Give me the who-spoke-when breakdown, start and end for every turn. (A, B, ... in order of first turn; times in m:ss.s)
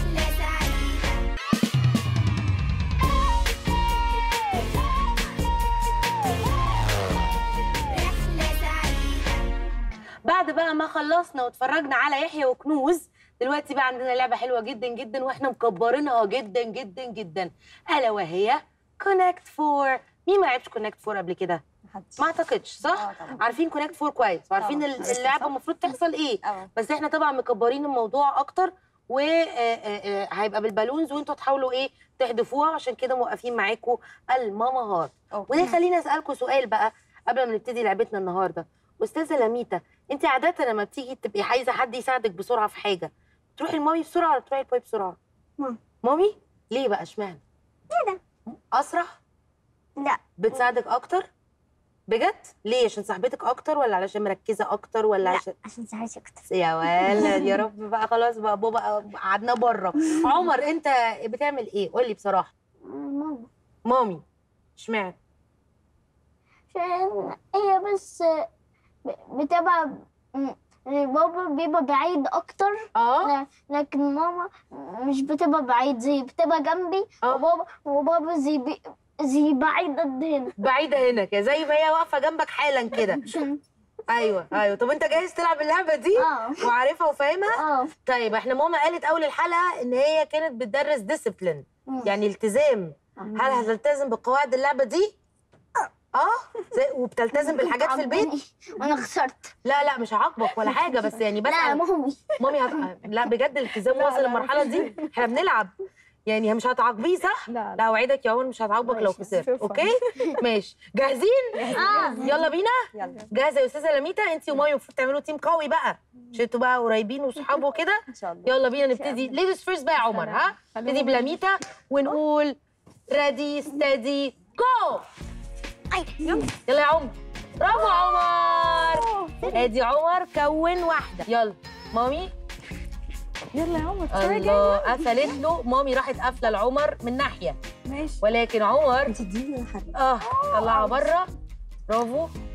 0:10.3-0:21.6 A
0:21.9-0:22.2 B
0:22.2-0:45.2 A
0:22.9-0:23.4 B
0:24.6-0:25.5 B
0:35.3-0:35.7 B
0:46.0-0:47.4 A
0:47.9-0:48.2 C
0:48.5-0:49.1 A
0:50.4-0:51.3 A
0:52.1-0:55.5 A
0:55.2-0:57.5 C
0:56.5-1:02.5 A
1:02.8-1:03.5 C
1:03.9-1:04.2 A
1:04.8-1:05.2 A
1:06.7-1:08.5 C
1:09.1-1:20.5 C
1:13.0-1:13.3 A
1:20.6-1:23.2 A
1:22.9-1:23.6 C
1:24.1-1:35.2 A
1:26.2-1:26.7 C
1:27.5-1:27.9 C
1:36.1-1:38.3 A
1:37.4-1:39.5 C
1:39.6-1:41.8 A
1:41.4-1:42.8 C
1:42.4-1:45.7 A
1:46.3-1:52.8 A
1:47.5-1:47.8 B
1:48.9-1:50.3 B
1:51.6-1:52.4 B
1:51.7-1:52.4 C
1:52.9-1:53.3 B
1:53.3-2:02.6 A
1:58.1-1:58.5 B
1:59.0-1:59.3 B
2:00.1-2:01.4 B
2:03.1-2:05.0 A
2:06.2-2:06.5 B
2:06.7-2:12.3 A
2:07.8-2:08.0 B
2:08.7-2:09.6 B
2:13.5-2:15.4 B
2:14.1-2:17.6 A
2:17.9-2:18.2 B
2:18.2-2:19.2 A
2:19.1-2:21.0 B
2:19.9-2:21.3 A
2:21.9-2:22.3 A